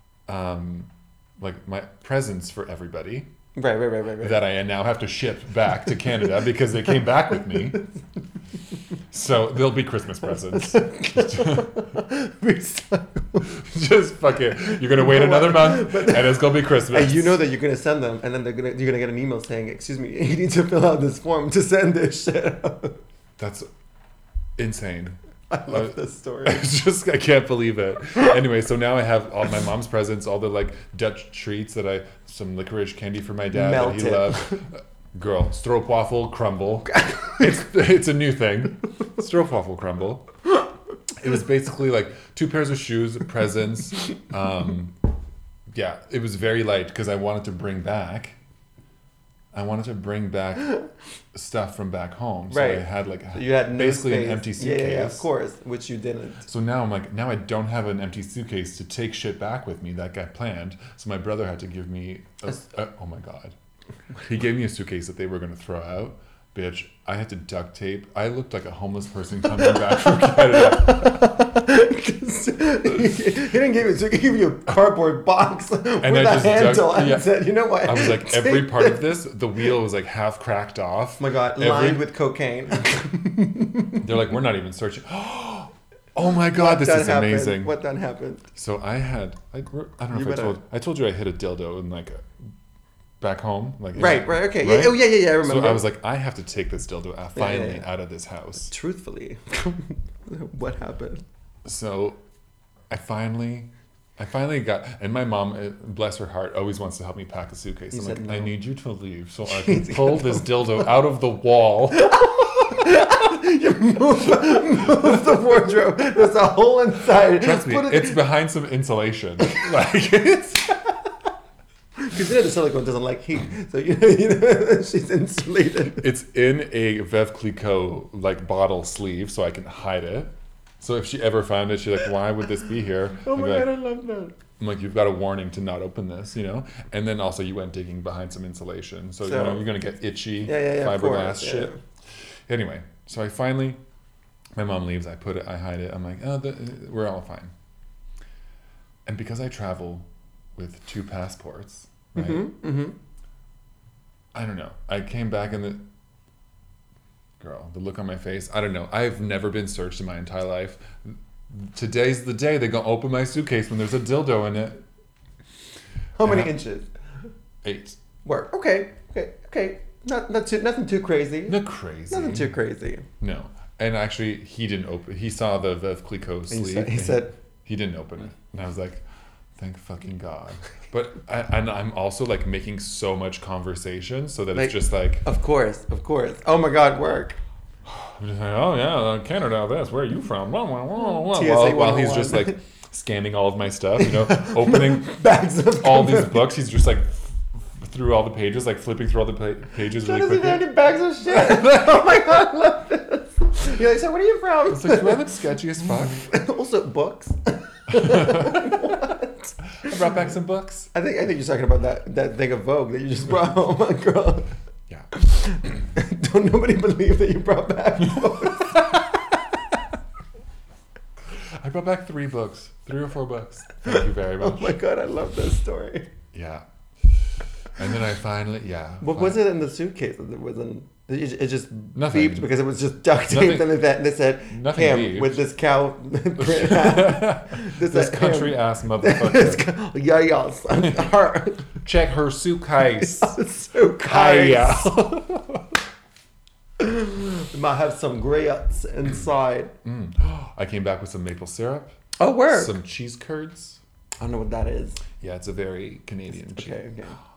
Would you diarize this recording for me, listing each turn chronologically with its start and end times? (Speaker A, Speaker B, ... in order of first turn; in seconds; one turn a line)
Speaker A: 0.3-3.3
Speaker B: 3.6-4.4
Speaker A: 4.2-7.9
Speaker A: 9.1-11.9
Speaker B: 10.3-13.5
Speaker A: 13.4-17.4
Speaker B: 14.6-23.0
Speaker A: 23.4-23.7
Speaker A: 24.6-40.3
Speaker B: 25.5-26.6
Speaker B: 33.5-34.6
Speaker B: 37.0-37.5
Speaker A: 41.1-45.0
Speaker A: 45.7-48.4
Speaker A: 49.5-50.8
Speaker A: 51.3-55.3
Speaker B: 52.5-56.5
Speaker A: 56.5-63.6
Speaker A: 64.2-71.4
Speaker B: 69.5-79.0
Speaker A: 76.0-82.1
Speaker B: 81.2-84.0
Speaker A: 84.0-87.8
Speaker B: 86.5-88.5
Speaker A: 88.5-92.3
Speaker B: 90.1-90.6
Speaker A: 93.2-98.7
Speaker B: 94.0-95.8
Speaker B: 97.4-97.8
Speaker B: 98.7-101.2
Speaker A: 101.7-102.2
Speaker A: 102.9-112.4
Speaker B: 107.9-108.6
Speaker B: 109.5-110.5
Speaker B: 112.0-118.2
Speaker A: 117.3-120.6
Speaker B: 119.4-119.7
Speaker B: 120.5-121.1
Speaker B: 122.0-126.1
Speaker A: 126.0-133.7
Speaker B: 133.2-134.4
Speaker A: 134.6-141.8
Speaker B: 139.2-139.7
Speaker B: 140.4-141.8
Speaker A: 142.5-143.8
Speaker A: 144.6-147.5
Speaker A: 149.1-152.5
Speaker B: 152.2-152.9
Speaker A: 154.3-155.9
Speaker A: 157.4-164.8
Speaker B: 166.2-166.9
Speaker A: 166.2-166.6
Speaker A: 167.6-168.0
Speaker B: 168.2-171.6
Speaker A: 171.5-172.5
Speaker B: 172.1-173.1
Speaker A: 173.2-179.0
Speaker B: 176.5-177.3
Speaker A: 179.6-185.3
Speaker B: 184.5-187.4
Speaker A: 187.9-195.2
Speaker B: 191.3-192.6
Speaker B: 194.0-196.5
Speaker A: 195.8-200.7
Speaker B: 199.9-210.1
Speaker A: 201.3-202.3
Speaker A: 204.7-206.3
Speaker A: 207.9-209.0
Speaker A: 209.8-210.9
Speaker B: 210.9-214.5
Speaker B: 215.1-219.4
Speaker A: 218.7-219.1
Speaker A: 221.6-224.8
Speaker B: 223.9-226.1
Speaker A: 226.3-226.7
Speaker A: 227.8-229.4
Speaker B: 229.0-241.8
Speaker A: 231.9-232.5
Speaker A: 233.3-233.7
Speaker A: 234.5-235.4
Speaker A: 236.4-239.7
Speaker A: 241.8-243.4
Speaker B: 242.8-245.4
Speaker A: 244.1-245.3
Speaker B: 246.8-249.7
Speaker A: 249.8-251.9
Speaker B: 252.2-252.7
Speaker A: 252.5-253.8
Speaker B: 254.2-255.0
Speaker A: 255.2-256.9
Speaker B: 256.3-257.2